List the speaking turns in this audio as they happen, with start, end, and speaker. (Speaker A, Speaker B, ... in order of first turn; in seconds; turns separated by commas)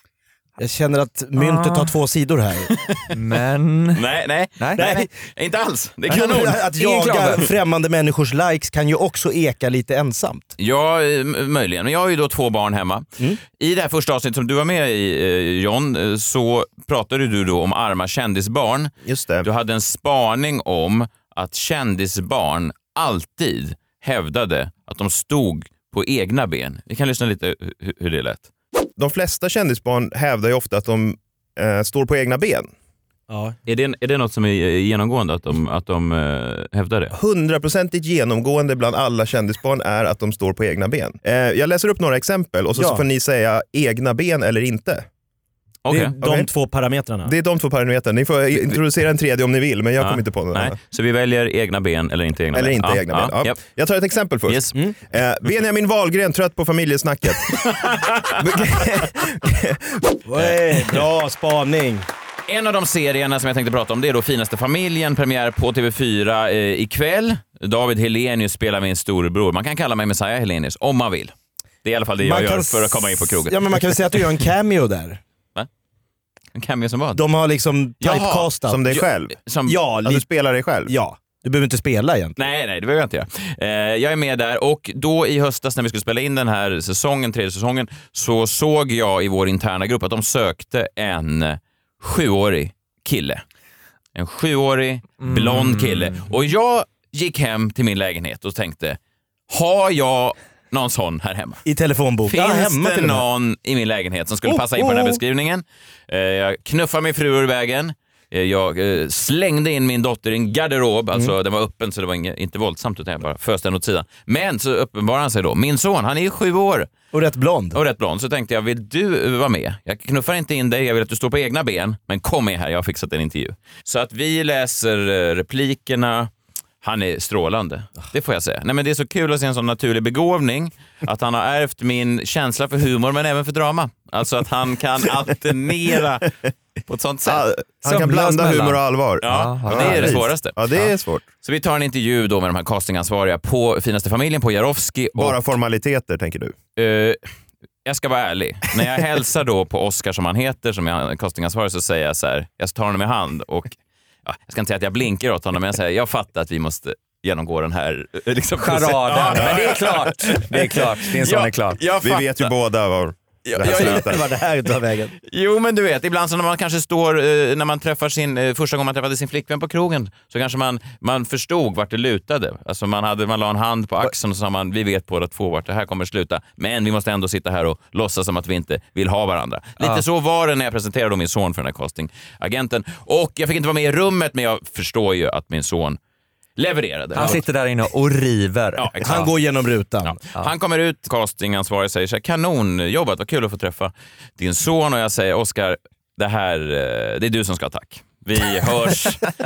Speaker A: 0.6-2.7, Speaker B: 1.4-1.9, Speaker C: 2.7-3.0, Speaker B: 3.1-4.0, Speaker C: 3.9-6.6, Speaker B: 4.6-4.9, Speaker A: 4.8-5.1, Speaker B: 6.1-7.5, Speaker A: 6.1-10.5, Speaker C: 10.6-18.9, Speaker D: 19.1-19.5, Speaker C: 19.4-28.5, Speaker D: 29.0-32.7, Speaker A: 33.3-33.5, Speaker C: 33.7-37.1, Speaker D: 37.1-45.0, Speaker A: 42.7-43.0, Speaker C: 45.8-46.1, Speaker A: 45.9-47.3, Speaker D: 46.2-46.5, Speaker D: 47.2-50.8, Speaker C: 50.0-53.6, Speaker D: 52.5-57.6, Speaker C: 54.5-54.7, Speaker C: 57.5-58.4, Speaker D: 58.4-60.2, Speaker A: 60.2-62.1, Speaker C: 62.5-71.3, Speaker C: 71.8-74.0, Speaker A: 72.2-75.2, Speaker C: 76.5-77.2, Speaker A: 77.1-79.0, Speaker C: 78.0-79.8, Speaker D: 78.7-79.4, Speaker A: 79.7-80.2, Speaker D: 80.0-80.9, Speaker A: 80.8-82.4, Speaker C: 82.4-93.4, Speaker C: 94.1-99.0, Speaker B: 95.2-96.2, Speaker C: 99.5-101.6, Speaker A: 101.6-103.2, Speaker C: 102.3-116.9, Speaker A: 104.4-105.2, Speaker A: 117.1-117.8, Speaker C: 117.7-136.3, Speaker C: 136.9-137.4, Speaker D: 137.2-141.2, Speaker B: 137.8-140.2, Speaker C: 139.2-140.9, Speaker C: 141.4-145.4, Speaker D: 145.2-146.5, Speaker C: 146.8-147.2, Speaker C: 147.8-162.5, Speaker B: 158.6-161.8, Speaker D: 162.0-164.2, Speaker C: 163.4-164.1, Speaker A: 163.6-165.1, Speaker C: 165.3-186.0, Speaker C: 186.6-187.4, Speaker B: 187.2-188.8, Speaker C: 188.8-189.3, Speaker A: 189.0-190.2, Speaker C: 190.0-199.3